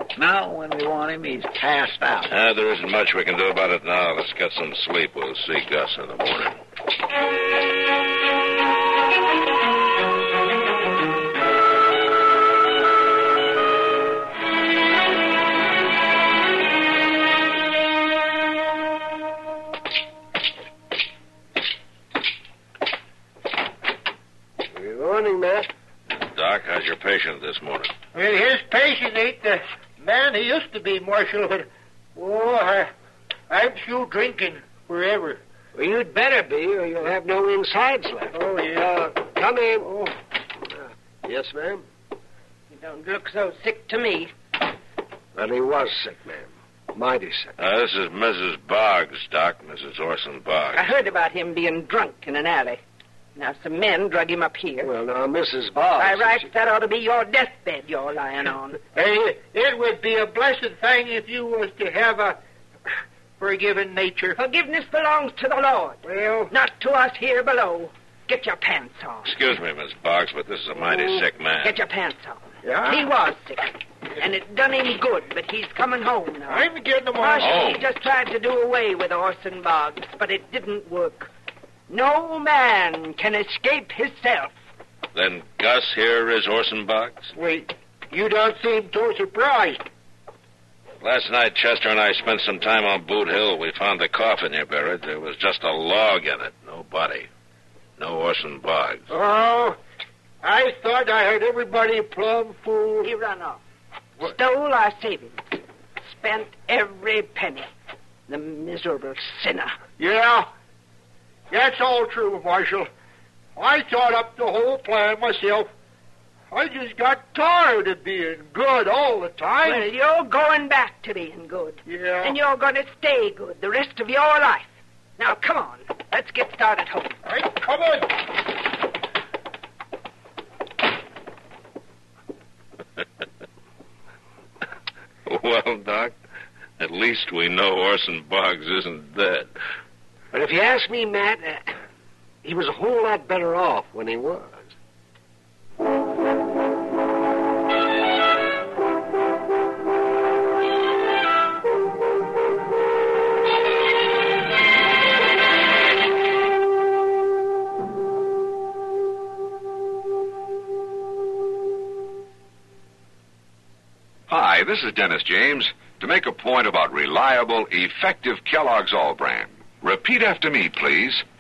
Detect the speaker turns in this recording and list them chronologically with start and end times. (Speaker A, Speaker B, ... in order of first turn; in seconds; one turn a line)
Speaker A: 0.2-2.3
Speaker B: 2.3-6.6
Speaker C: 24.7-25.7
Speaker B: 26.1-27.9
Speaker D: 28.1-32.9
Speaker D: 33.5-35.4
Speaker C: 35.7-41.8
Speaker E: 42.7-44.3
Speaker C: 45.4-47.5
Speaker B: 47.6-50.9
Speaker E: 50.7-52.8
Speaker E: 53.4-54.9
Speaker C: 54.8-56.5
Speaker E: 56.0-58.8
Speaker D: 58.9-62.4
Speaker D: 63.4-64.4
Speaker E: 64.4-66.0
Speaker D: 66.0-66.5
Speaker E: 66.5-69.3
Speaker B: 69.2-71.8
Speaker E: 71.6-76.7
Speaker D: 72.6-73.1
Speaker D: 76.5-77.6
Speaker E: 77.2-81.3
Speaker B: 77.4-77.9
Speaker E: 81.9-84.5
Speaker B: 85.1-87.3
Speaker D: 87.3-89.8
Speaker B: 91.0-97.3
Speaker B: 98.0-99.0
Speaker D: 99.1-99.8
Speaker D: 100.4-103.1
Speaker E: 103.0-103.6
Speaker E: 104.2-105.5
Speaker E: 106.0-107.7
Speaker E: 108.3-109.7
Speaker D: 110.0-110.5
Speaker D: 111.5-112.9
Speaker D: 113.6-115.7
Speaker D: 116.5-119.9
Speaker E: 119.7-127.2
Speaker D: 121.9-122.4
Speaker D: 127.2-128.1
Speaker B: 135.3-136.2
Speaker B: 136.8-139.5
Speaker C: 140.3-141.7
Speaker C: 142.4-144.7
Speaker F: 164.3-171.2